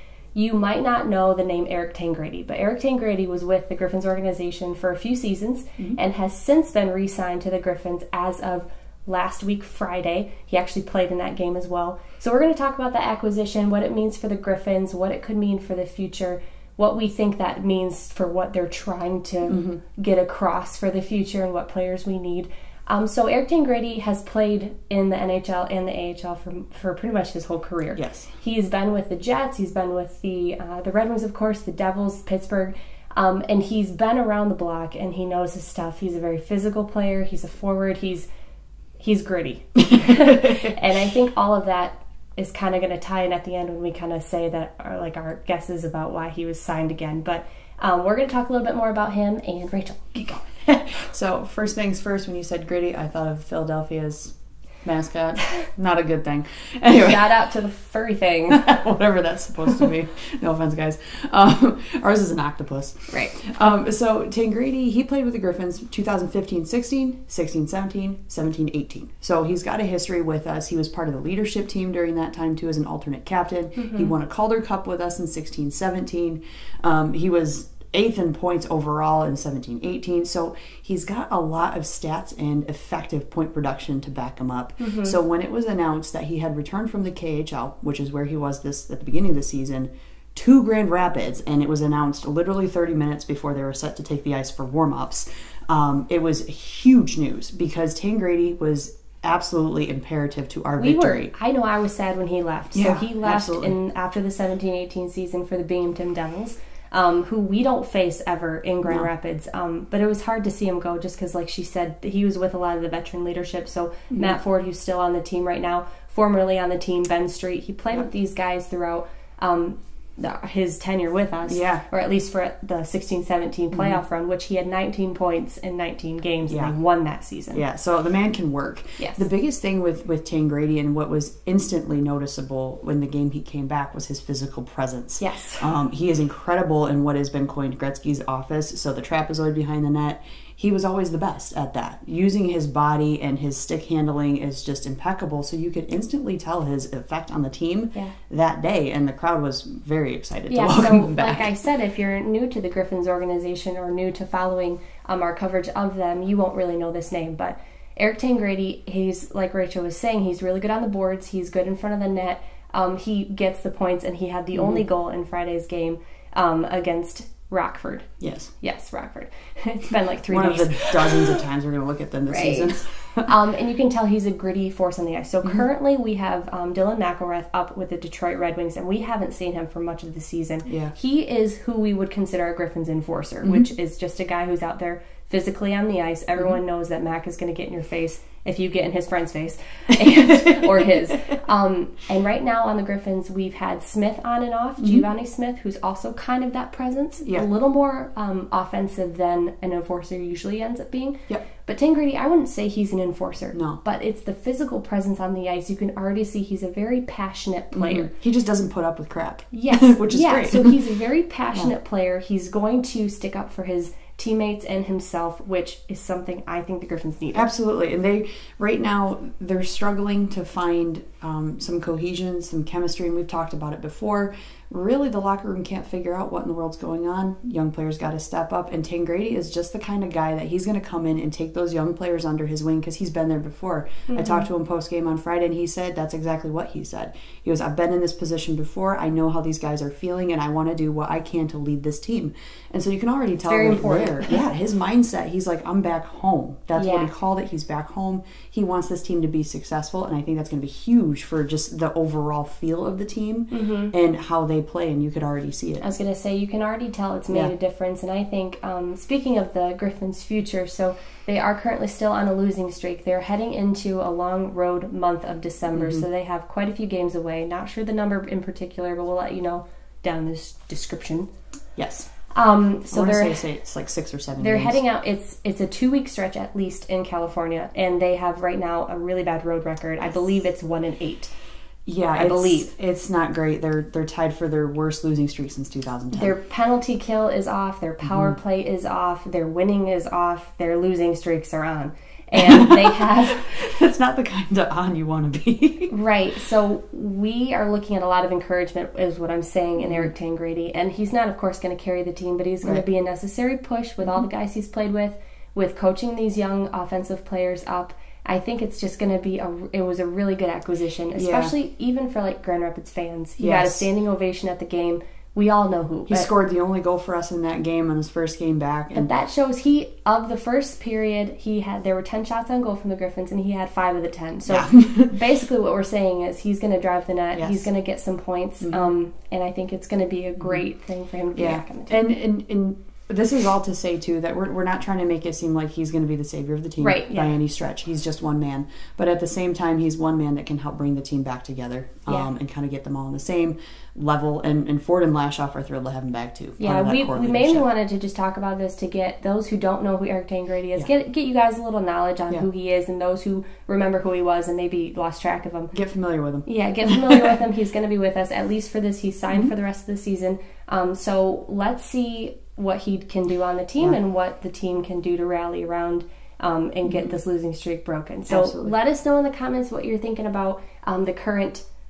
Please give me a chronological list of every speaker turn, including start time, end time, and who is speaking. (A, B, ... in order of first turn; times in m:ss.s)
0:00.3-0:38.3 A
0:19.5-0:19.8 B
0:28.0-0:28.3 B
0:39.0-0:51.0 A
0:51.1-0:54.3 B
0:54.8-0:57.4 B
0:57.0-0:58.8 A
0:58.5-1:41.3 B
1:13.8-1:14.1 A
1:24.8-1:25.2 A
1:40.8-2:07.6 A
1:42.7-1:43.8 B
1:54.1-1:54.4 B
2:01.5-2:01.8 B
2:03.7-2:04.0 B
2:06.5-2:06.8 B
2:07.5-2:31.5 B
2:09.0-2:09.2 A
2:15.2-2:15.7 A
2:30.5-2:51.4 A
2:44.6-2:44.8 B
2:48.2-2:48.5 B
2:50.3-2:53.3 B
2:52.3-3:28.1 A
3:00.7-3:00.9 B
3:14.8-3:15.0 B
3:23.5-3:23.8 B
3:27.7-3:30.8 B
3:29.5-3:37.5 A
3:37.3-4:15.9 B
3:54.1-3:54.5 A
4:03.5-4:04.4 A
4:06.8-4:07.1 A
4:13.5-4:13.9 A
4:15.8-4:31.3 A
4:25.7-4:26.1 B
4:31.8-4:32.1 B
4:32.3-4:33.4 A
4:32.9-4:34.8 B
4:34.4-4:41.3 A
4:41.9-4:46.4 B
4:42.1-4:42.7 A
4:46.1-4:53.7 A
4:48.0-4:48.4 B
4:52.3-4:56.0 B
4:55.9-5:16.3 A
4:59.8-5:00.1 B
5:11.2-5:11.5 B
5:13.4-5:13.9 B
5:16.1-5:19.1 B
5:18.9-5:32.0 A
5:24.5-5:25.2 B
5:27.4-5:27.7 B
5:28.6-5:28.9 B
5:31.4-5:47.7 B
5:36.8-5:37.4 A
5:46.6-5:55.7 A
5:55.7-5:57.4 B
5:56.5-6:11.6 A
6:06.8-6:07.2 B
6:08.3-6:08.7 B